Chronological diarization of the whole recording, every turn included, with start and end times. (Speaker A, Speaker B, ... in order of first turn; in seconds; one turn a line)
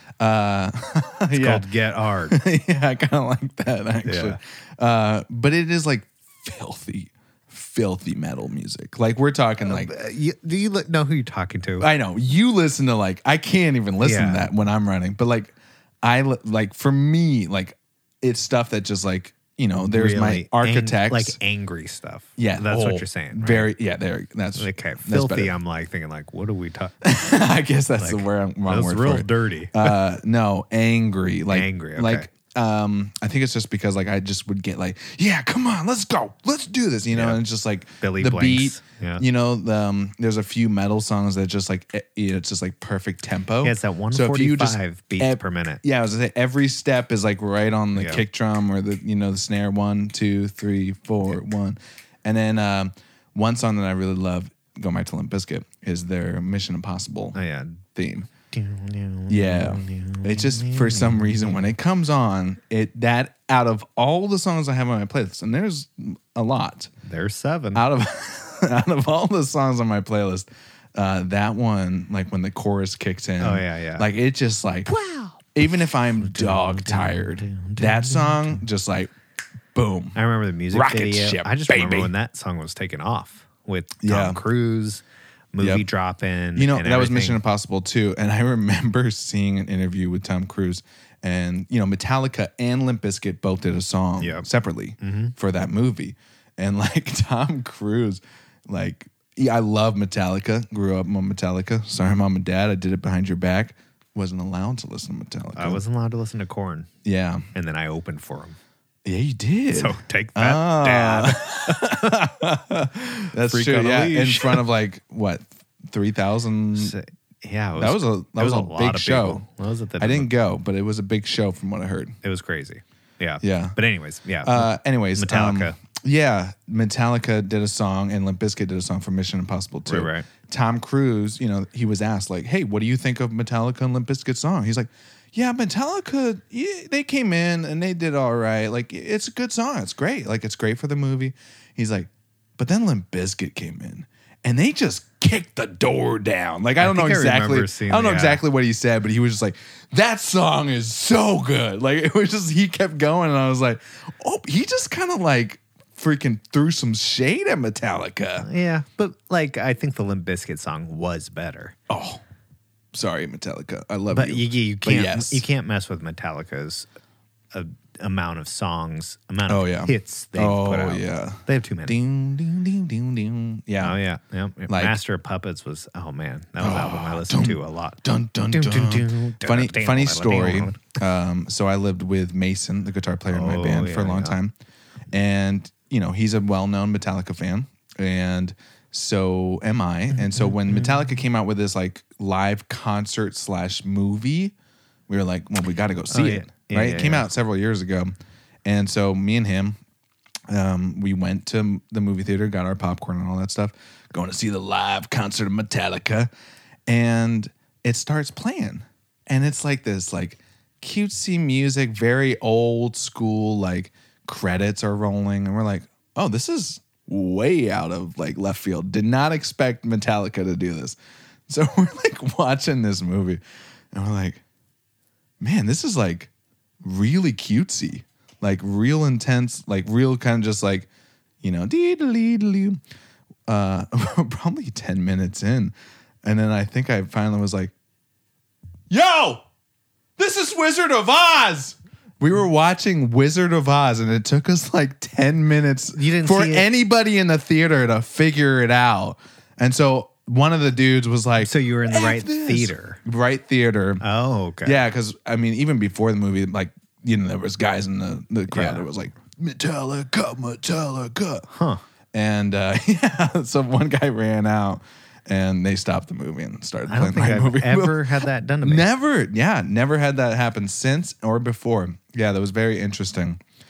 Speaker A: 0.2-1.7
Speaker B: 1.3-2.4
Speaker A: 2.3-9.9
Speaker B: 4.0-4.4
Speaker B: 9.7-11.9
Speaker A: 11.8-21.4
Speaker B: 14.0-14.5
Speaker B: 19.8-23.7
Speaker A: 22.4-25.5
Speaker B: 24.6-26.9
Speaker A: 27.0-57.4
Speaker B: 28.0-29.9
Speaker B: 31.5-32.3
Speaker B: 37.1-37.4
Speaker B: 38.0-39.2
Speaker B: 43.6-45.8
Speaker B: 48.0-48.2
Speaker B: 57.3-57.8
Speaker A: 58.0-58.3
Speaker B: 58.5-61.7
Speaker A: 59.3-66.9
Speaker B: 67.0-67.8
Speaker A: 67.7-74.9
Speaker B: 73.4-74.1
Speaker B: 74.9-75.4
Speaker A: 75.5-79.1
Speaker B: 76.2-78.6
Speaker A: 79.7-80.2
Speaker B: 80.2-85.0
Speaker A: 80.7-82.1
Speaker A: 84.0-84.4
Speaker B: 85.5-87.4
Speaker A: 85.6-85.9
Speaker A: 86.6-105.8
Speaker B: 94.2-94.5
Speaker B: 95.0-95.4
Speaker B: 105.5-106.9
Speaker A: 107.0-107.4
Speaker B: 107.5-108.6
Speaker A: 109.0-117.0
Speaker B: 109.7-112.0
Speaker B: 113.4-114.7
Speaker B: 116.8-120.3
Speaker A: 117.8-119.4
Speaker A: 120.0-122.2
Speaker B: 122.2-125.8
Speaker A: 123.4-123.8
Speaker A: 124.4-158.5
Speaker B: 129.9-130.3
Speaker B: 146.8-148.4
Speaker B: 158.4-161.8
Speaker A: 161.9-162.2
Speaker A: 162.9-165.4
Speaker B: 164.1-166.9
Speaker B: 167.5-172.0
Speaker A: 169.5-174.0
Speaker B: 173.8-180.8
Speaker A: 174.7-175.0
Speaker A: 176.6-184.5
Speaker B: 183.3-184.4
Speaker A: 185.1-194.5
Speaker B: 190.2-191.0
Speaker A: 195.1-199.8
Speaker B: 196.1-197.3
Speaker A: 200.5-206.3
Speaker A: 206.9-221.0
Speaker A: 221.5-223.4
Speaker A: 223.9-224.4
Speaker A: 225.4-226.3
Speaker A: 226.8-230.9
Speaker A: 231.4-232.8
Speaker A: 233.5-237.7
Speaker A: 238.9-239.4
Speaker A: 240.2-254.0
Speaker B: 245.9-246.7
Speaker B: 251.4-253.0
Speaker B: 254.0-254.8
Speaker A: 254.6-261.5
Speaker B: 258.5-258.9
Speaker B: 261.5-261.8
Speaker A: 262.1-273.4
Speaker B: 266.9-268.9